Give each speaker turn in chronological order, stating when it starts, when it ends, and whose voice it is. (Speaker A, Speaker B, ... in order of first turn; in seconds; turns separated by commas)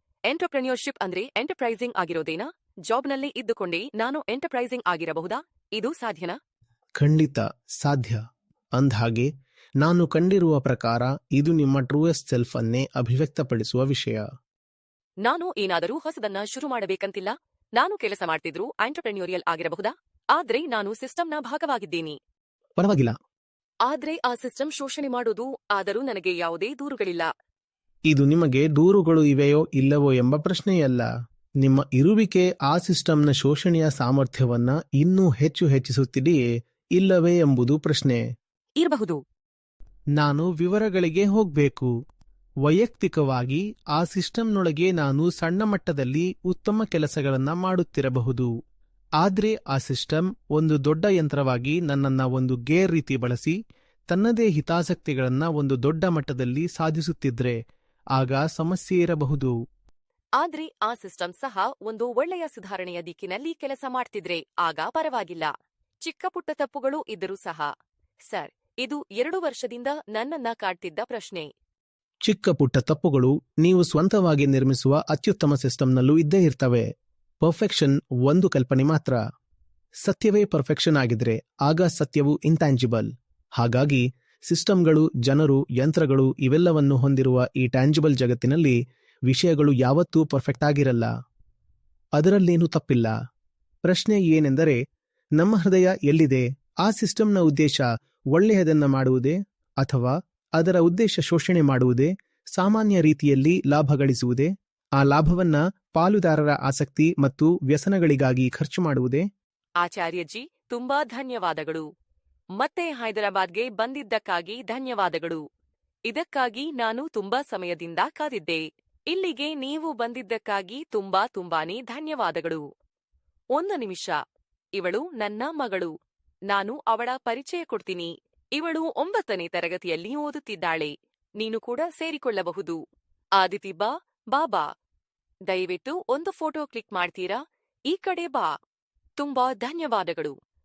Speaker A: 0.3-6.4, Speaker B: 7.0-8.2, Speaker B: 8.8-9.3, Speaker B: 9.8-14.2, Speaker A: 15.2-22.2, Speaker B: 22.8-23.1, Speaker A: 23.9-27.3, Speaker B: 28.1-31.1, Speaker B: 31.6-38.2, Speaker A: 38.8-39.2, Speaker B: 40.2-41.9, Speaker B: 42.6-48.5, Speaker B: 49.2-53.6, Speaker B: 54.1-57.6, Speaker B: 58.1-59.5, Speaker A: 60.4-65.5, Speaker A: 66.0-67.7, Speaker A: 68.3-71.5, Speaker B: 72.2-76.9, Speaker B: 77.4-79.2, Speaker B: 80.0-88.8, Speaker B: 89.3-91.1, Speaker B: 92.2-93.1, Speaker B: 93.8-94.8, Speaker B: 95.4-109.2, Speaker A: 109.8-111.9, Speaker A: 112.6-115.4, Speaker A: 116.1-122.6, Speaker A: 123.5-124.2, Speaker A: 124.8-125.9, Speaker A: 126.5-132.8, Speaker A: 133.4-134.7, Speaker A: 135.5-138.5, Speaker A: 139.2-140.3